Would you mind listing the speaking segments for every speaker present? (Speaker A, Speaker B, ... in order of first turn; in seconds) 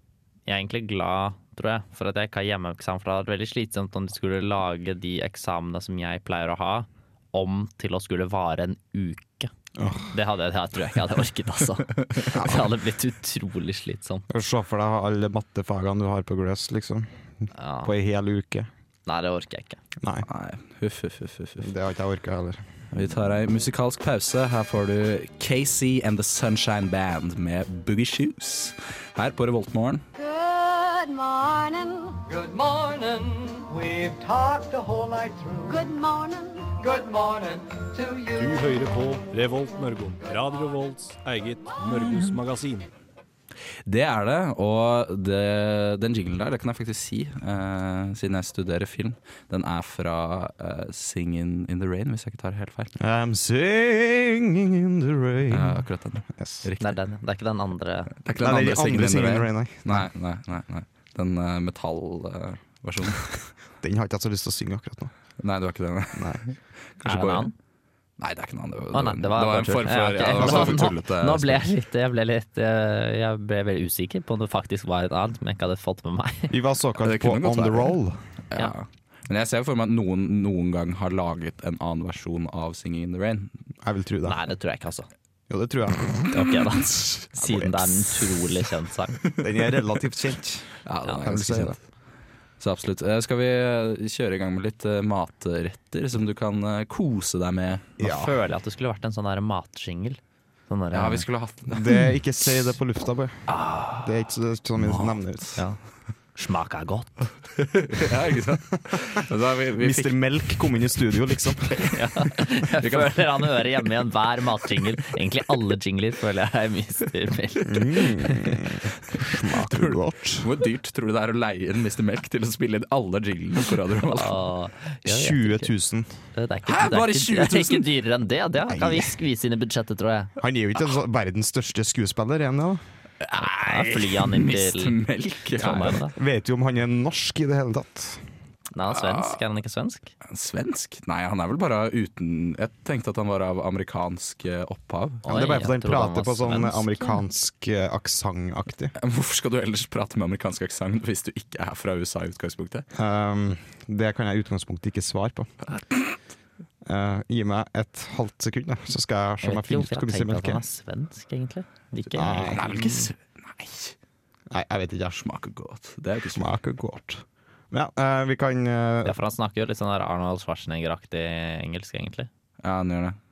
Speaker A: 0.5-9.5, 10.1-14.3, 17.5-17.9, 19.1-19.8, 56.8-58.1, 67.0-67.5, 68.9-76.5, 84.2-85.1, 86.3-89.2, 98.0-101.2, 103.5-104.0, 106.3-107.2, 111.9-118.6, 124.1-125.7, 126.3-130.3, 133.3-135.0, 135.6-136.1, 138.7-140.1, 145.2-147.1, 159.4-163.0, 169.0-172.3
Speaker B: 9.8-10.1, 12.3-12.6, 14.3-18.7, 20.0-20.3, 21.6-22.6, 53.0-56.7, 58.4-60.1, 63.8-65.1, 66.1-66.4, 70.5-70.8, 76.5-78.2, 83.8-84.4, 85.5-86.4, 87.4-87.7, 89.4-91.8, 98.0-98.3, 101.7-103.4, 104.0-105.6, 109.8-111.9, 117.7-120.5, 125.0-126.2, 128.7-129.1, 130.4-132.8, 136.1-138.2, 145.3-148.9, 152.9-155.6, 156.8-160.6, 162.1-162.7, 164.5-165.2, 166.3-169.1
Speaker C: 20.2-21.7, 22.9-30.0, 42.0-42.4, 43.9-52.9, 55.5-57.0, 58.2-63.5, 65.4-67.5, 68.2-71.6, 77.0-78.0, 78.5-83.5, 90.8-91.8, 92.6-98.0, 100.9-102.1, 104.8-105.2, 107.5-110.6, 112.8-113.7, 119.2-124.3, 126.7-127.9, 133.2-136.0, 138.9-139.4, 140.2-145.2, 148.9-152.8, 162.4-163.9, 165.2-166.5, 172.6-173.2
Speaker D: 30.1-32.2, 35.7-36.7
Speaker E: 32.3-35.8, 36.8-38.6
Speaker F: 38.4-42.9